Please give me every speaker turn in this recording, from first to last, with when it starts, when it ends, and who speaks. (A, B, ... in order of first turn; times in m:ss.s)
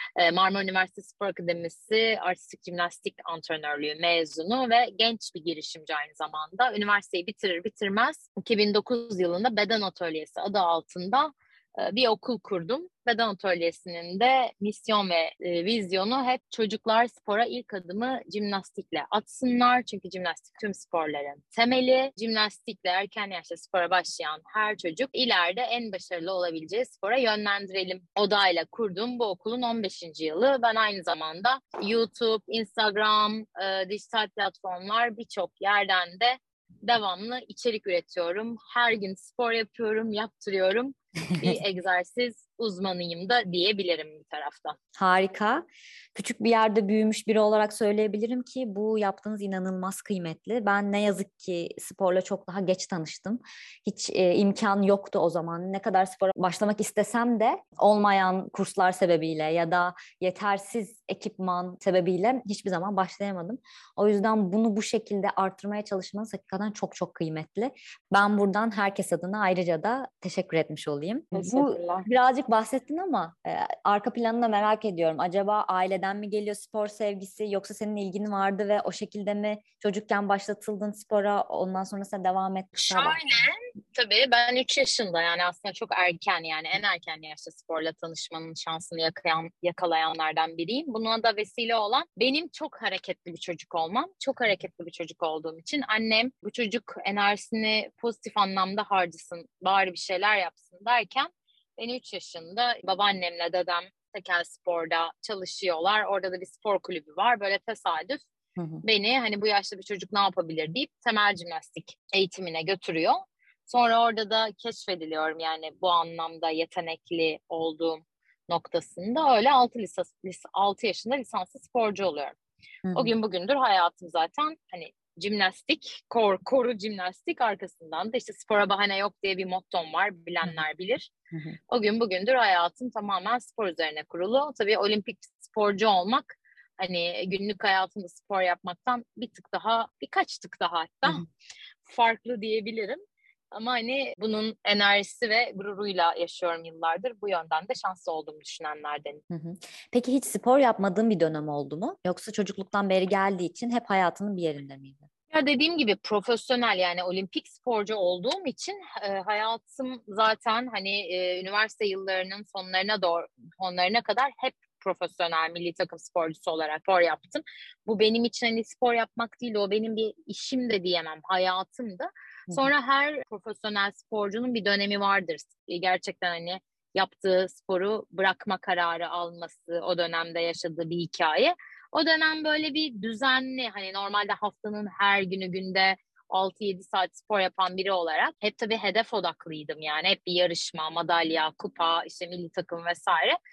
0:00.2-0:44.8 A
0:45.0-1:23.2 B
1:11.3-1:12.1 A
1:22.8-1:48.3 A
1:48.6-1:48.8 B
1:48.8-2:02.4 A
2:02.8-2:03.1 B
2:03.0-2:11.1 A
2:11.7-2:21.2 A
2:21.8-2:23.0 A
2:23.5-2:29.2 A
2:29.3-2:35.1 B
2:35.3-3:13.4 A